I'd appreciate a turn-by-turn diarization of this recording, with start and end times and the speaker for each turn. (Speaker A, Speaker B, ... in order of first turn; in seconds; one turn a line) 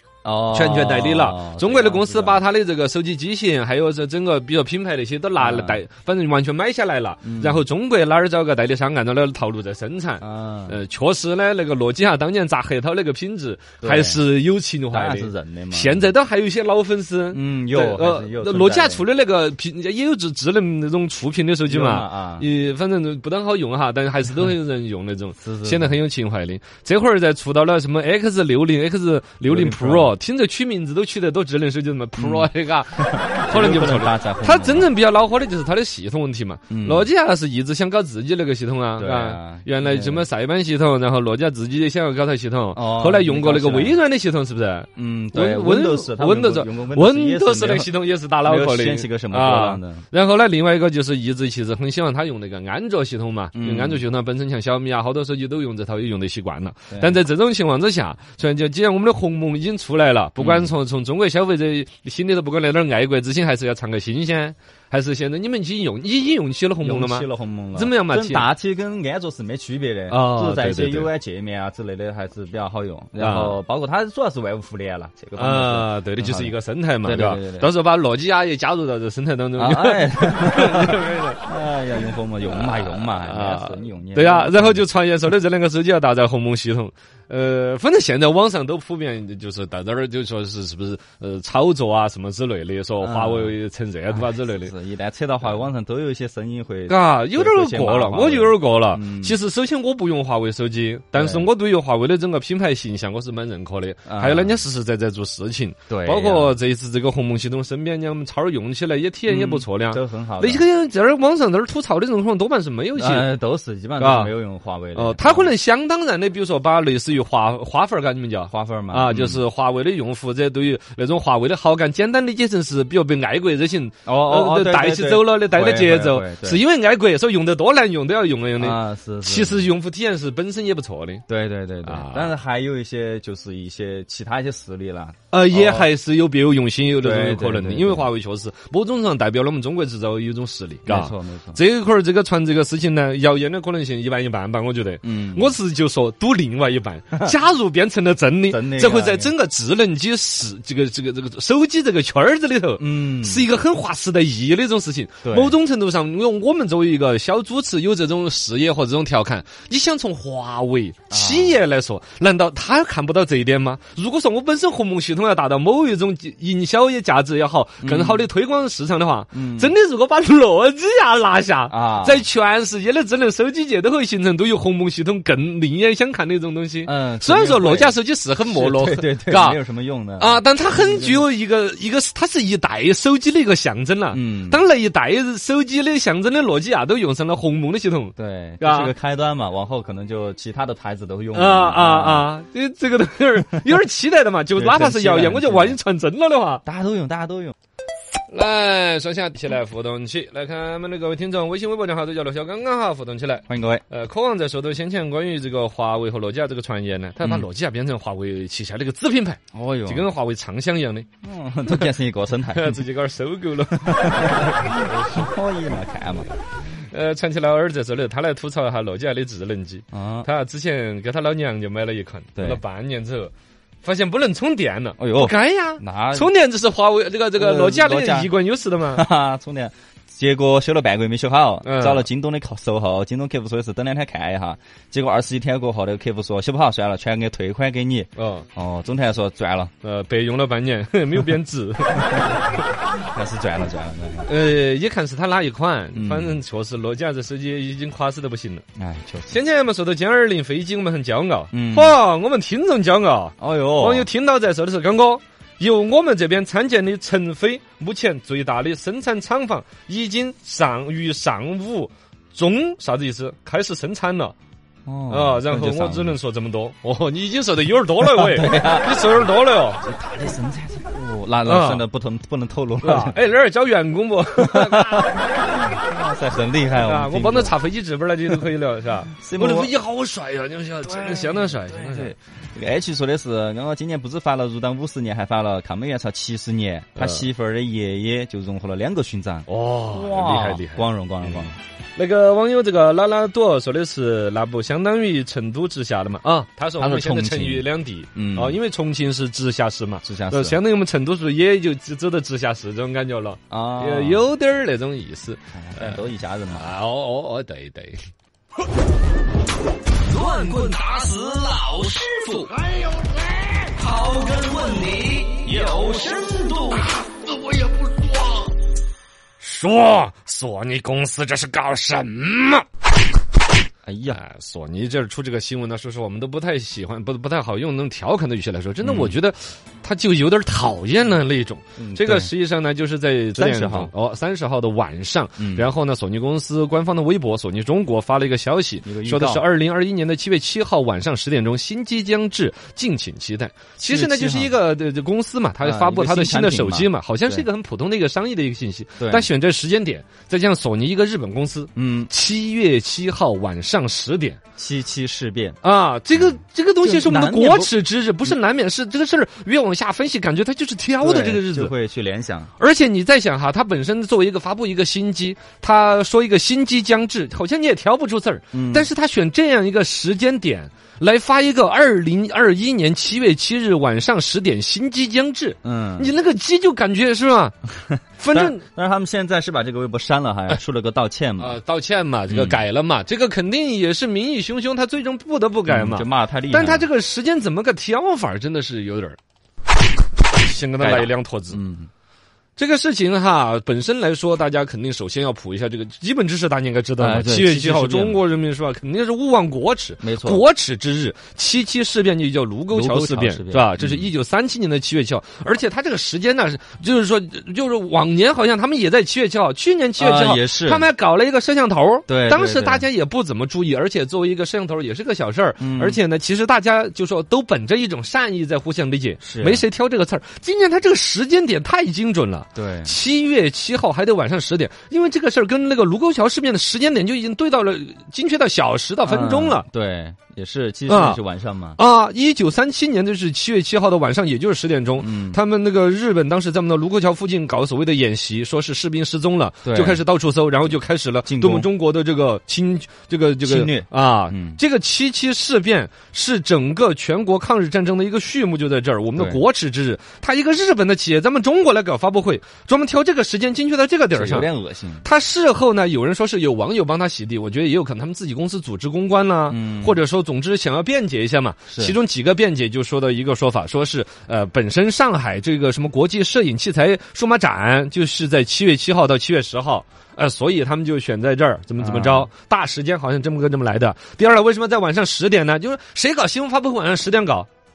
Speaker A: 0.2-2.4
Speaker B: 0.5-68.5
Speaker A: 5.3-5.8
Speaker A: 7.2-7.7
Speaker A: 10.2-10.8
Speaker A: 13.8-14.2
Speaker A: 14.9-16.1
Speaker A: 17.3-19.1
Speaker A: 21.7-22.5
Speaker A: 25.4-26.0
Speaker A: 29.4-30.1
Speaker A: 32.2-34.9
Speaker A: 36.7-37.1
Speaker A: 39.0-40.3
Speaker A: 42.7-44.0
Speaker A: 45.0-47.9
Speaker A: 48.4-50.0
Speaker A: 53.5-54.0
Speaker A: 56.9-57.2
Speaker A: 60.4-60.7
Speaker A: 66.8-77.7
Speaker B: 70.1-71.1
Speaker B: 73.2-73.5
Speaker B: 75.3-81.5
Speaker A: 79.6-84.9
Speaker B: 82.5-94.7
Speaker A: 93.0-93.5
Speaker A: 94.1-99.4
Speaker B: 96.9-113.3
Speaker A: 101.1-101.5
Speaker A: 104.1-104.6
Speaker A: 105.9-106.6
Speaker A: 109.3-110.6
Speaker A: 112.9-115.5
Speaker B: 114.0-114.3
Speaker B: 114.9-131.2
Speaker A: 118.5-119.4
Speaker A: 124.0-126.6
Speaker A: 128.6-129.7
Speaker A: 131.3-135.9
Speaker B: 131.8-132.3
Speaker B: 135.3-179.6
Speaker A: 136.9-138.1
Speaker A: 140.8-141.6
Speaker A: 145.0-145.6
Speaker A: 148.5-149.3
Speaker A: 152.8-153.5
Speaker A: 155.2-155.6
Speaker A: 161.1-161.6
Speaker A: 167.8-168.3
Speaker A: 169.3-169.7
Speaker A: 171.7-172.2
Speaker A: 176.8-181.2
Speaker B: 180.2-188.9
Speaker A: 184.1-184.6
Speaker A: 188.2-192.3
Speaker B: 191.3-196.6
Speaker A: 194.5-195.8
Speaker A: 196.6-197.5
Speaker B: 198.3-211.1
Speaker A: 203.5-203.8
Speaker A: 207.2-207.5
Speaker A: 209.5-210.1
Speaker A: 211.2-212.8
Speaker B: 212.5-215.3
Speaker A: 213.8-216.3
Speaker B: 216.9-223.3
Speaker A: 219.9-220.3
Speaker A: 222.3-222.6
Speaker B: 223.8-229.1
Speaker A: 225.0-226.3
Speaker A: 227.3-239.7
Speaker B: 231.6-232.1
Speaker B: 238.2-238.4
Speaker B: 239.8-242.4
Speaker A: 243.0-244.3
Speaker B: 244.2-248.6
Speaker A: 245.9-246.4
Speaker A: 248.8-249.4
Speaker B: 249.3-264.3
Speaker A: 251.5-252.0
Speaker A: 253.4-254.1
Speaker A: 264.9-266.2
Speaker B: 265.1-269.8
Speaker A: 268.0-269.2
Speaker A: 269.8-273.2
Speaker B: 271.4-271.8
Speaker B: 272.8-275.6
Speaker A: 274.4-277.6
Speaker B: 276.7-282.1
Speaker A: 279.1-279.7
Speaker A: 281.0-291.6
Speaker B: 286.9-287.3
Speaker B: 289.5-308.0
Speaker A: 296.8-298.6
Speaker A: 300.0-300.6
Speaker A: 303.5-304.3
Speaker A: 305.5-306.7
Speaker C: 310.1-312.7
Speaker C: 313.7-316.9
Speaker B: 319.4-322.6
Speaker A: 323.8-324.2
Speaker B: 324.1-354.4
Speaker A: 328.8-329.2
Speaker A: 331.8-332.3
Speaker A: 333.3-333.9
Speaker A: 335.4-335.7
Speaker A: 338.8-339.4
Speaker A: 343.8-344.6
Speaker A: 345.6-347.5
Speaker A: 349.0-349.3
Speaker A: 351.8-352.1
Speaker A: 354.6-355.6
Speaker B: 355.6-361.7
Speaker A: 356.1-357.7
Speaker A: 361.0-362.5
Speaker B: 362.6-377.5
Speaker A: 368.5-368.9
Speaker A: 375.6-376.1
Speaker B: 378.2-378.6
Speaker A: 378.3-381.6
Speaker B: 381.4-389.2
Speaker A: 382.3-382.6
Speaker A: 385.7-386.9
Speaker B: 390.4-391.6
Speaker A: 390.8-391.9
Speaker B: 392.6-429.6
Speaker A: 397.0-398.2
Speaker A: 400.0-400.4
Speaker A: 402.7-404.1
Speaker A: 410.0-410.9
Speaker A: 412.1-412.9
Speaker A: 415.6-416.0
Speaker A: 419.2-419.6
Speaker A: 422.5-422.9
Speaker A: 429.0-431.8
Speaker B: 430.9-431.2
Speaker B: 431.8-454.5
Speaker A: 435.0-435.4
Speaker A: 439.6-440.0
Speaker A: 441.2-441.7
Speaker A: 443.4-444.6
Speaker A: 449.1-449.4
Speaker A: 454.1-455.1
Speaker B: 455.0-477.5
Speaker A: 459.5-460.0
Speaker A: 461.7-462.0
Speaker A: 471.8-472.3